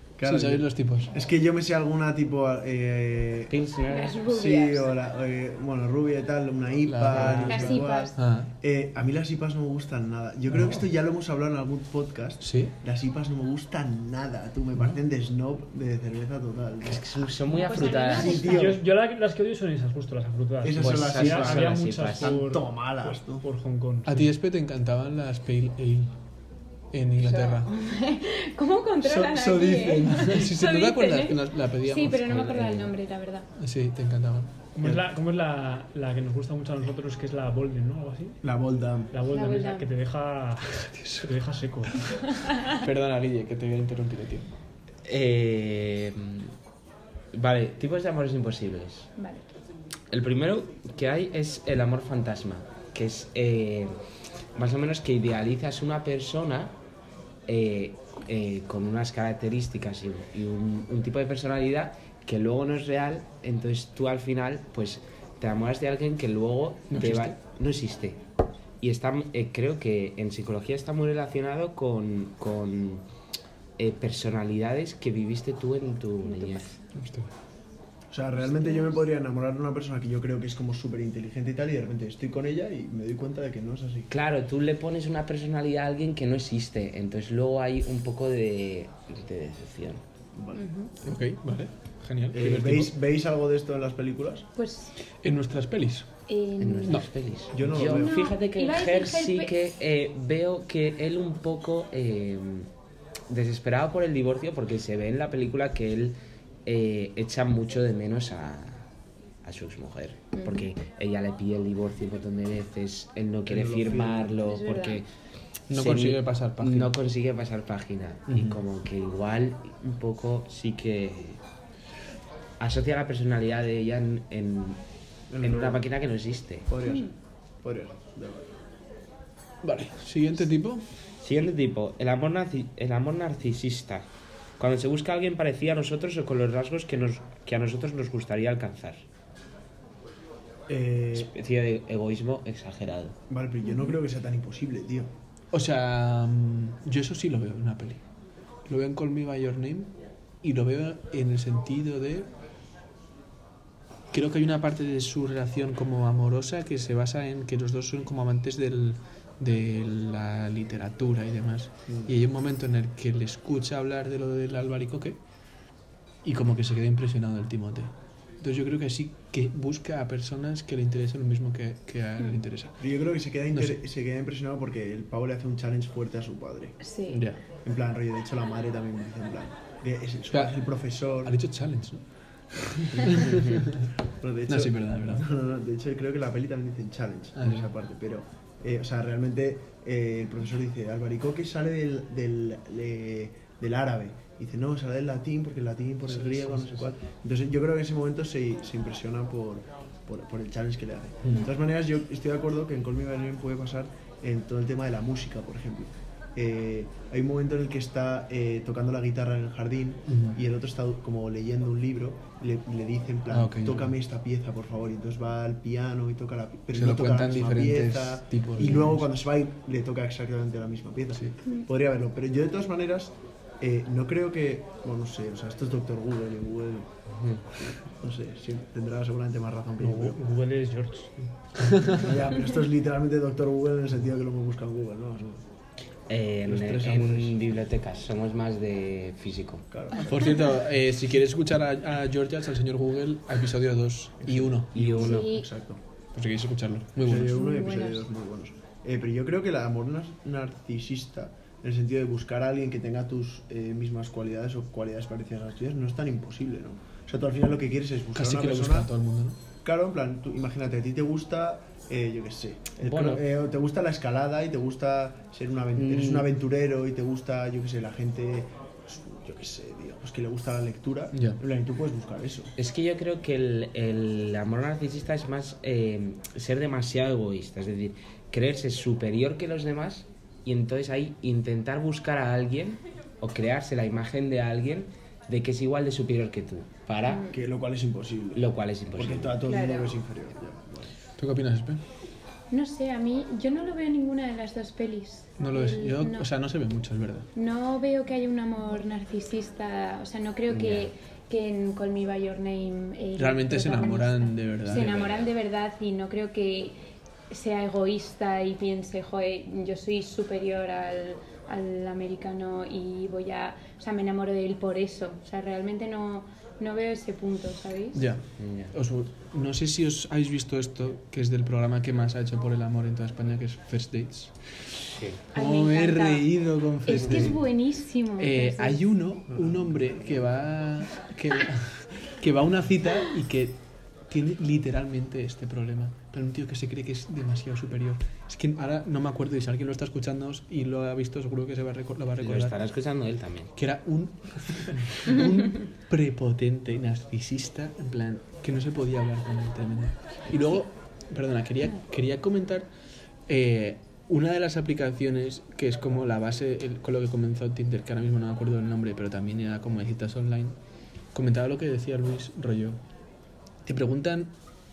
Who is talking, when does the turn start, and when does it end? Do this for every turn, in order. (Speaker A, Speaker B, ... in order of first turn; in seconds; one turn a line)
Speaker A: 0.2-3.5
Speaker B: 0.2-1.1
Speaker C: 3.5-4.2
Speaker D: 3.9-4.9
Speaker A: 4.2-17.6
Speaker B: 6.8-8.5
Speaker D: 7.2-8.1
Speaker B: 10.5-10.9
Speaker B: 12.4-12.7
Speaker C: 16.8-18.6
Speaker D: 17.5-18.8
Speaker A: 18.1-18.8
Speaker E: 18.3-24.3
Speaker A: 20.6-23.4
Speaker C: 20.8-22.4
Speaker B: 24.1-26.1
Speaker B: 26.9-27.7
Speaker D: 27.2-33.5
Speaker A: 29.0-30.4
Speaker B: 30.1-32.2
Speaker C: 32.1-32.9
Speaker B: 33.6-34.5
Speaker E: 34.7-38.4
Speaker A: 38.4-39.1
Speaker E: 39.1-42.5
Speaker D: 39.3-39.9
Speaker B: 40.8-41.3
Speaker D: 42.4-42.7
Speaker B: 42.7-44.5
Speaker C: 45.0-46.5
Speaker C: 47.3-49.1
Speaker D: 49.2-49.4
Speaker C: 50.1-53.9
Speaker C: 54.5-56.7
Speaker C: 57.5-68.2
Speaker B: 66.9-67.3
Speaker C: 68.8-73.0
Speaker C: 73.8-76.8
Speaker D: 76.2-76.7
Speaker B: 76.9-77.3
Speaker A: 78.1-84.1
Speaker D: 78.4-79.0
Speaker C: 84.1-90.0
Speaker A: 90.3-90.6
Speaker D: 90.5-90.9
Speaker B: 91.0-92.9
Speaker A: 92.3-94.5
Speaker D: 94.5-94.9
Speaker B: 95.2-96.1
Speaker D: 96.3-97.0
Speaker C: 96.6-102.7
Speaker A: 97.5-98.1
Speaker D: 97.8-99.5
Speaker C: 103.3-108.8
Speaker C: 109.4-115.0
Speaker D: 110.3-110.7
Speaker A: 113.5-114.3
Speaker D: 114.4-115.0
Speaker B: 115.7-116.9
Speaker C: 115.7-121.4
Speaker B: 118.3-118.6
Speaker C: 122.6-124.8
Speaker A: 125.3-125.8
Speaker C: 125.4-126.7
Speaker A: 126.7-127.1
Speaker D: 126.8-127.1
Speaker A: 127.6-128.5
Speaker B: 129.6-130.8
Speaker C: 131.2-134.1
Speaker C: 134.6-139.0
Speaker A: 140.7-141.3
Speaker C: 141.1-143.2
Speaker A: 143.3-145.1
Speaker D: 143.6-144.0
Speaker B: 145.5-148.0
Speaker B: 148.7-152.3
Speaker B: 154.1-165.2
Speaker A: 161.9-162.1
Speaker B: 166.2-172.8
Speaker A: 172.8-176.8
Speaker B: 173.5-173.8
Speaker D: 176.8-177.2
Speaker B: 177.1-177.4
Speaker A: 177.6-181.3
Speaker B: 180.3-180.6
Speaker B: 181.2-183.9
Speaker A: 182.9-183.4
Speaker A: 184.2-226.9
Speaker B: 184.5-185.2
Speaker B: 187.4-187.7
Speaker B: 196.1-196.9
Speaker B: 210.1-210.4
Speaker B: 213.3-213.9
Speaker B: 216.7-219.1
Speaker C: 227.1-227.4
Speaker A: 227.9-230.2
Speaker E: 229.8-231.3
Speaker B: 231.6-232.0
Speaker A: 231.9-235.4
Speaker C: 236.1-239.6
Speaker B: 236.5-237.3
Speaker A: 239.7-240.4
Speaker B: 240.0-245.0
Speaker A: 244.2-245.8
Speaker C: 244.7-245.3
Speaker D: 245.0-245.5
Speaker B: 246.1-247.4
Speaker A: 247.0-258.9
Speaker D: 247.3-248.0
Speaker B: 258.1-259.4
Speaker A: 259.6-272.5
Speaker C: 262.8-263.2
Speaker C: 265.7-266.3
Speaker B: 271.1-271.4
Speaker C: 272.6-287.2
Speaker D: 287.0-287.4
Speaker A: 287.3-290.9
Speaker C: 288.3-289.4
Speaker D: 289.4-290.0
Speaker B: 291.2-291.8
Speaker D: 292.5-296.3
Speaker B: 295.4-297.3
Speaker D: 297.3-306.8
Speaker C: 300.5-300.9
Speaker B: 303.2-304.9
Speaker C: 304.6-305.3
Speaker D: 307.3-318.0
Speaker B: 317.9-324.4
Speaker C: 318.4-318.7
Speaker C: 324.9-325.2
Speaker D: 325.3-326.3
Speaker B: 325.3-327.4
Speaker D: 326.8-328.8
Speaker B: 328.2-342.5
Speaker A: 329.3-330.3
Speaker C: 342.2-343.5
Speaker B: 343.6-352.7
Speaker B: 353.3-360.5
Speaker B: 361.1-362.8
Speaker B: 363.6-364.3